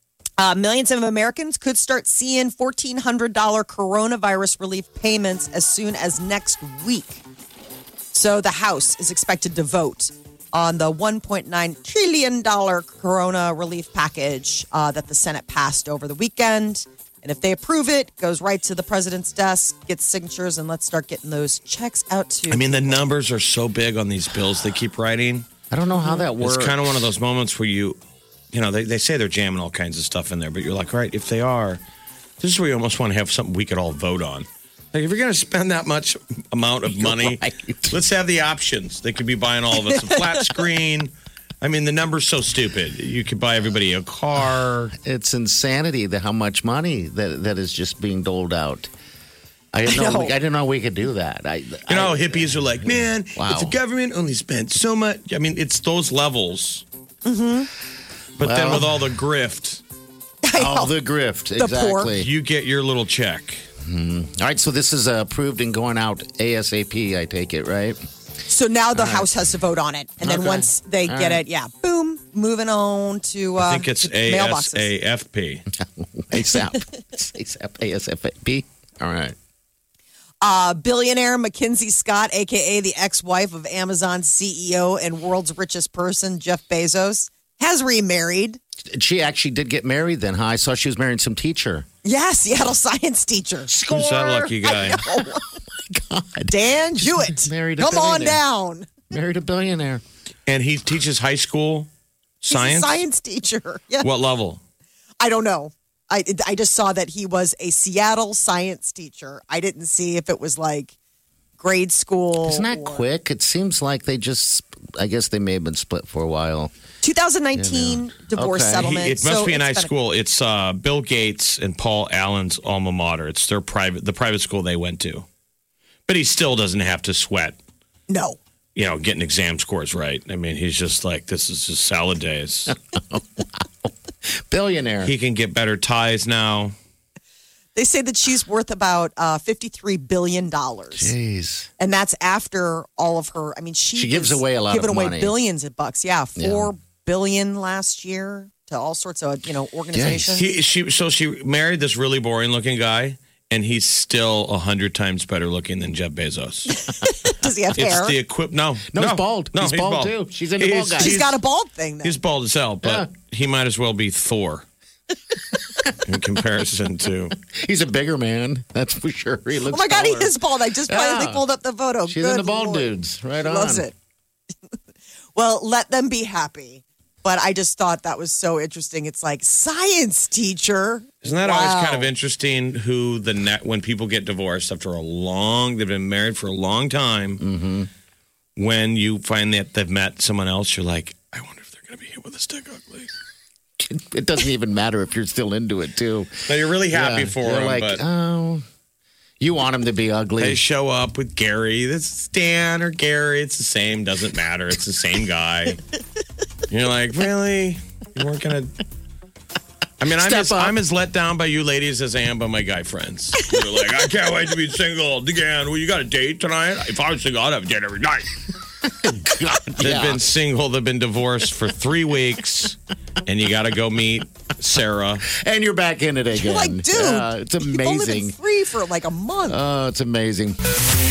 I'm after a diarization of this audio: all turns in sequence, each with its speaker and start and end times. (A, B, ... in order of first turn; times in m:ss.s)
0:00.4-0:07.2 A
0:08.1-0:23.0 A
0:22.5-0:25.5 B
0:25.7-0:27.1 C
0:26.1-0:28.0 B
0:28.5-0:31.8 B
0:32.4-0:44.9 B
0:36.9-0:38.0 C
0:44.9-0:48.9 C
0:49.7-0:53.8 C
0:49.9-0:50.3 A
0:51.9-0:56.8 B
0:57.2-0:57.7 A
0:58.4-0:59.8 B
0:58.4-0:59.0 C
1:00.4-1:00.9 A
1:00.6-1:02.3 C
1:01.6-1:02.1 A
1:02.1-1:03.6 B
1:03.8-1:08.0 C
1:08.5-1:14.9 A
1:08.9-1:09.3 C
1:10.2-1:11.4 C
1:13.6-1:15.6 B
1:15.7-1:19.4 C
1:20.4-1:28.6 A
1:28.9-1:31.9 C
1:32.0-1:33.7 A
1:33.7-1:34.8 C
1:33.9-1:35.1 B
1:34.6-1:35.4 A
1:35.6-1:38.4 C
1:36.5-1:39.0 A
1:39.1-1:40.0 C
1:40.5-1:41.9 B
1:42.4-1:43.0 B
1:42.5-1:44.1 A
1:44.0-1:44.6 B
1:45.2-1:50.9 A
1:51.6-1:53.0 A
1:52.4-1:56.7 C
1:57.0-1:59.9 A
1:57.6-1:58.9 C
1:58.8-2:05.3 B
2:06.1-2:07.6 B
2:08.1-2:08.4 A
2:08.8-2:12.8 B
2:12.7-2:13.9 C
2:14.5-2:15.1 C
2:15.0-2:16.7 B
2:17.8-2:21.1 A
2:20.9-2:21.7 C
2:21.8-2:30.5 A
2:24.0-2:25.4 C
2:26.4-2:26.7 C
2:29.9-2:30.4 C
2:30.4-2:36.9 B
2:36.8-2:38.2 A
2:37.8-2:41.4 B
2:38.9-2:41.3 C
2:41.0-2:42.2 A
2:42.0-2:44.6 B
2:46.0-2:47.4 B
2:47.4-2:51.4 C
2:49.6-2:53.9 A
2:52.1-2:53.9 C
2:55.4-3:02.1 A
3:01.2-3:07.4 B
3:07.4-3:07.9 C
3:08.6-3:13.1 B
3:13.8-3:18.6 C
3:16.5-3:18.0 B
3:19.4-3:20.6 C
3:20.4-3:25.8 B
3:26.7-3:28.8 B
3:30.0-3:38.4 B
3:30.1-3:30.8 C
3:39.0-3:40.2 C
3:39.8-3:45.3 B
3:45.3-3:48.4 C
3:46.3-3:49.6 A
3:49.5-3:50.6 C